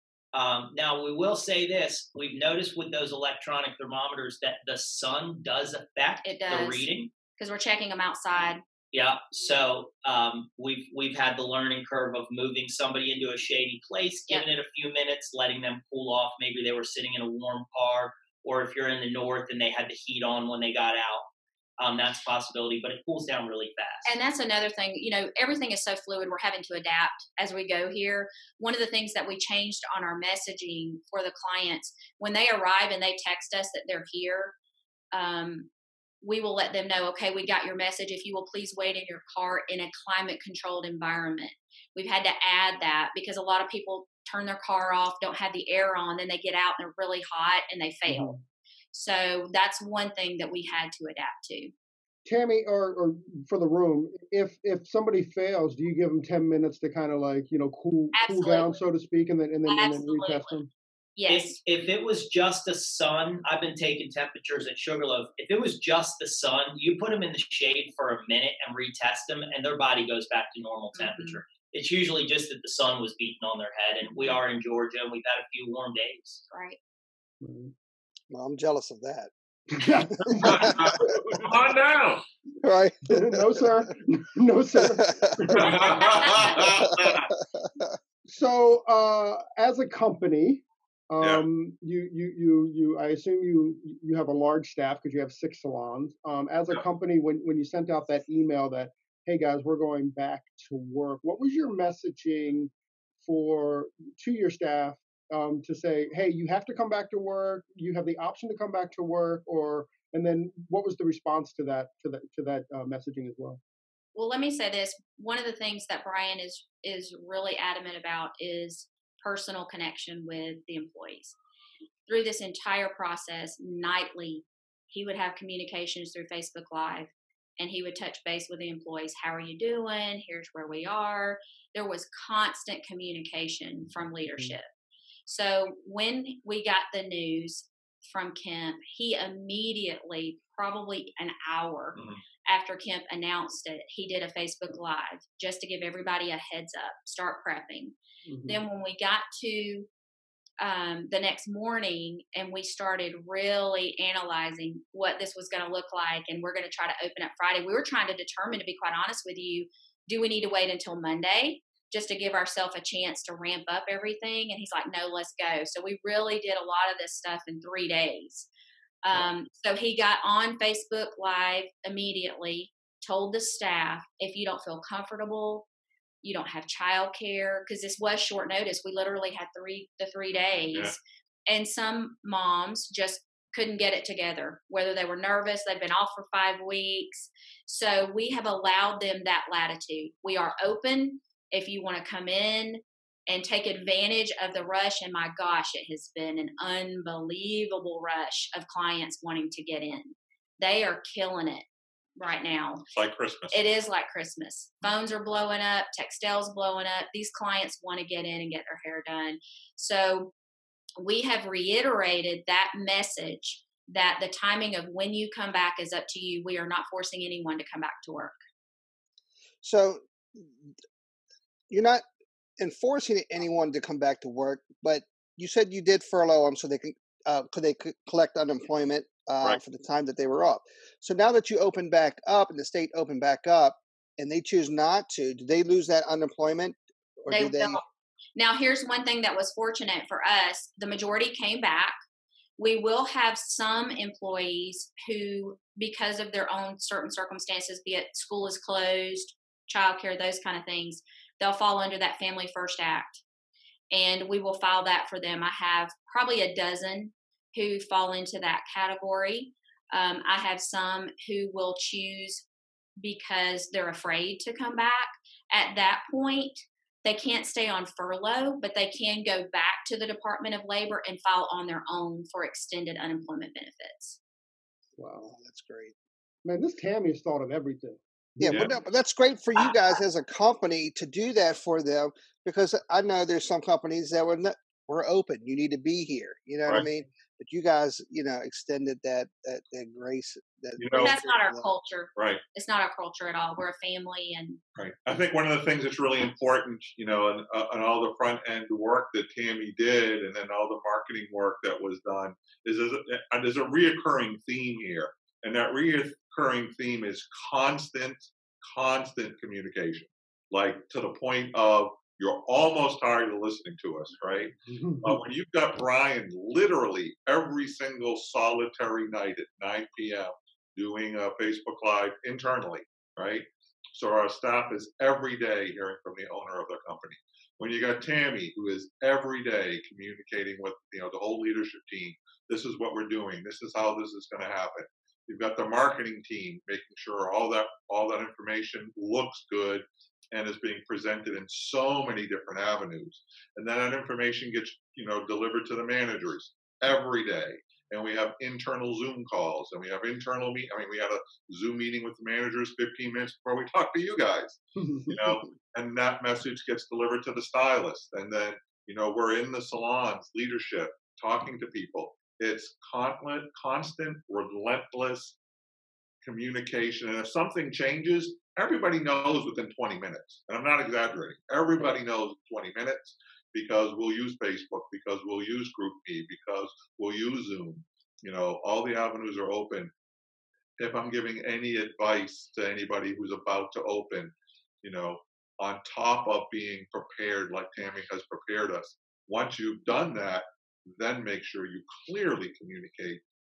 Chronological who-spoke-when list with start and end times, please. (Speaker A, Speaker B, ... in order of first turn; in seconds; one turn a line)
Speaker A: 0.3-7.1
Speaker B: 6.2-8.6
Speaker A: 8.9-21.3
Speaker A: 21.8-24.1
Speaker B: 24.1-34.5
Speaker B: 35.1-35.7
Speaker B: 36.2-48.3
Speaker C: 48.1-48.4
Speaker B: 48.9-51.7
Speaker C: 52.2-60.7
Speaker B: 58.1-58.8
Speaker B: 59.7-60.5
Speaker B: 61.2-61.6
Speaker A: 61.3-76.4
Speaker B: 70.9-71.4
Speaker B: 76.5-76.8
Speaker C: 77.4-77.7
Speaker D: 78.3-79.3
Speaker C: 79.7-80.7
Speaker E: 80.2-82.2
Speaker D: 80.3-81.2
Speaker D: 82.6-83.7
Speaker C: 83.1-85.8
Speaker D: 84.8-85.9
Speaker E: 85.5-87.3
Speaker D: 86.5-87.2
Speaker C: 88.2-102.7
Speaker C: 103.2-113.6
Speaker B: 114.2-121.4
Speaker B: 122.1-134.7
Speaker B: 135.3-147.9
Speaker E: 141.9-142.2
Speaker C: 148.3-148.6
Speaker B: 148.5-149.9
Speaker B: 150.6-168.5
Speaker B: 169.0-175.7
Speaker B: 176.2-201.7
Speaker B: 202.2-202.8
Speaker E: 202.9-203.6
Speaker B: 203.5-210.3
Speaker B: 211.0-218.3
Speaker D: 219.6-220.6
Speaker D: 221.7-222.0
Speaker D: 222.6-237.8
Speaker B: 237.3-237.8
Speaker B: 238.4-242.0
Speaker B: 242.6-253.2
Speaker B: 253.9-262.4
Speaker B: 263.0-274.2
Speaker C: 275.0-275.3
Speaker D: 275.2-275.9
Speaker C: 276.4-278.7
Speaker D: 278.4-291.7
Speaker E: 278.5-278.8
Speaker E: 290.8-291.1
Speaker B: 290.9-294.6
Speaker E: 292.2-292.4
Speaker E: 294.8-365.4
Speaker C: 314.7-315.2
Speaker C: 354.8-355.2
Speaker E: 366.2-379.9
Speaker E: 380.8-393.2